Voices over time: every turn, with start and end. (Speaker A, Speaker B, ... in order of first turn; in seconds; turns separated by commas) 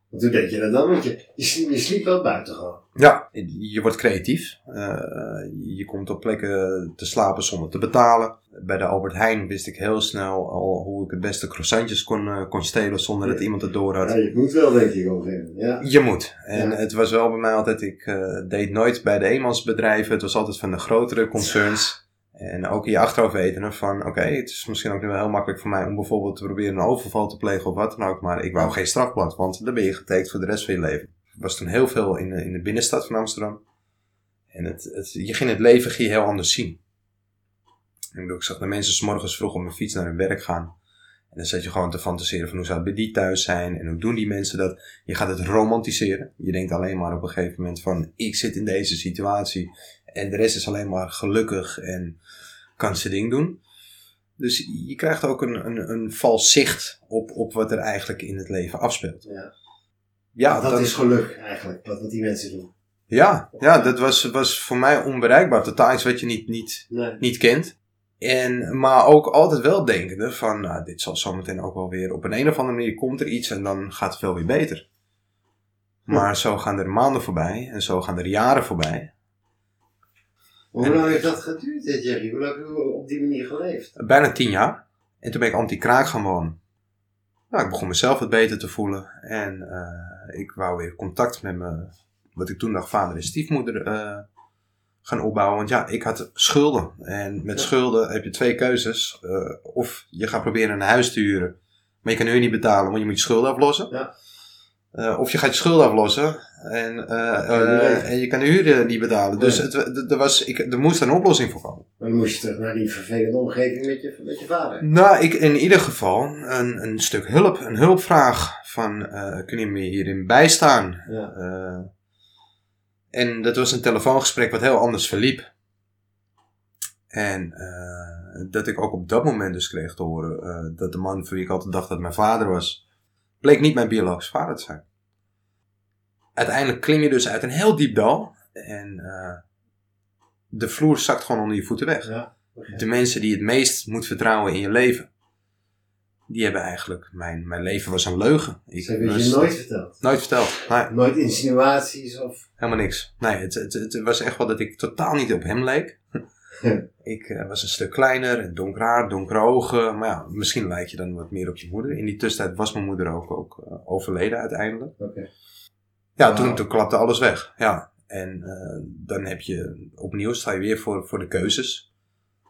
Speaker A: 0.1-2.8, Speaker B: 3.0-14.1, Speaker A: 14.0-15.8, Speaker B: 15.8-33.6, Speaker B: 34.5-36.8, Speaker B: 38.1-40.7, Speaker B: 41.3-52.2, Speaker B: 52.8-53.6, Speaker B: 54.4-59.2, Speaker B: 60.4-60.9, Speaker A: 60.5-62.7, Speaker B: 63.1-74.8, Speaker A: 66.9-67.2, Speaker B: 76.1-79.1, Speaker A: 80.7-83.9, Speaker B: 80.8-81.3, Speaker B: 84.0-86.6, Speaker B: 87.5-94.2, Speaker B: 95.0-103.9, Speaker B: 104.9-111.8, Speaker A: 107.5-108.1, Speaker A: 112.0-114.8, Speaker B: 114.8-121.9, Speaker A: 121.1-121.3, Speaker B: 123.1-125.5, Speaker B: 127.1-132.8, Speaker B: 133.4-134.8, Speaker B: 136.3-139.4, Speaker B: 140.5-142.1, Speaker A: 142.0-142.8, Speaker B: 142.7-145.1, Speaker B: 146.3-150.9, Speaker A: 148.8-149.9, Speaker A: 150.9-152.4, Speaker B: 152.6-156.0, Speaker B: 157.0-164.9, Speaker A: 165.0-165.3, Speaker B: 166.2-171.8, Speaker A: 166.2-166.6